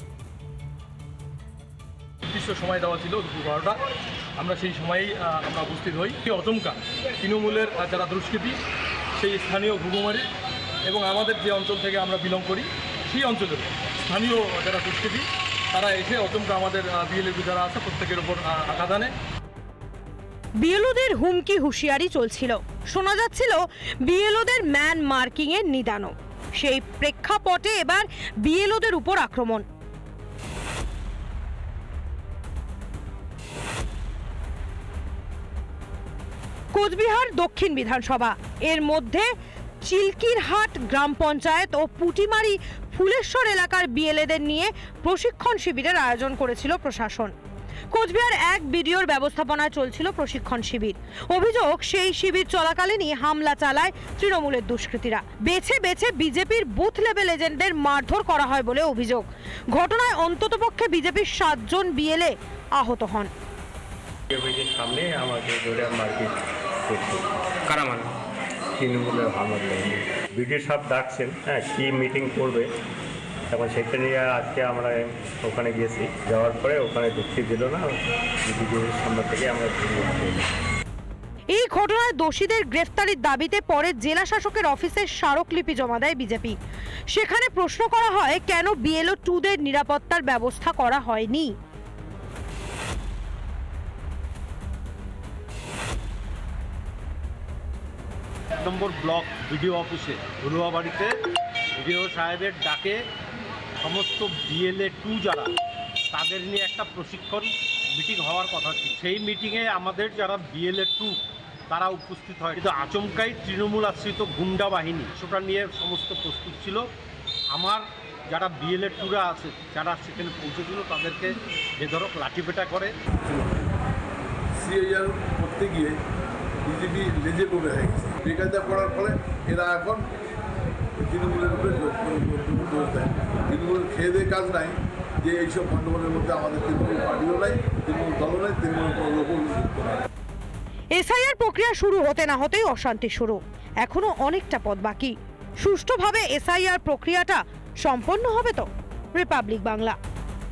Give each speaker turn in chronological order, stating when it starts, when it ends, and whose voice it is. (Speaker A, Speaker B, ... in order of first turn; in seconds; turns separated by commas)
Speaker A: 2.3-3.8, Speaker A: 4.4-8.6, Speaker A: 9.2-10.3, Speaker A: 10.8-19.1, Speaker B: 20.6-29.6, Speaker B: 36.7-39.3, Speaker B: 39.8-47.3, Speaker B: 47.9-63.3, Speaker C: 64.3-68.1, Speaker C: 68.8-72.7, Speaker C: 73.5-77.9, Speaker C: 78.4-80.4, Speaker B: 81.5-86.5, Speaker B: 87.1-91.5, Speaker D: 98.6-101.1, Speaker D: 101.8-103.0, Speaker D: 103.8-105.5, Speaker D: 106.1-111.2, Speaker D: 111.7-116.8, Speaker D: 117.5-122.9, Speaker E: 123.2-123.5, Speaker E: 124.5-126.0, Speaker E: 126.6-130.1, Speaker E: 131.0-140.0, Speaker B: 140.9-150.0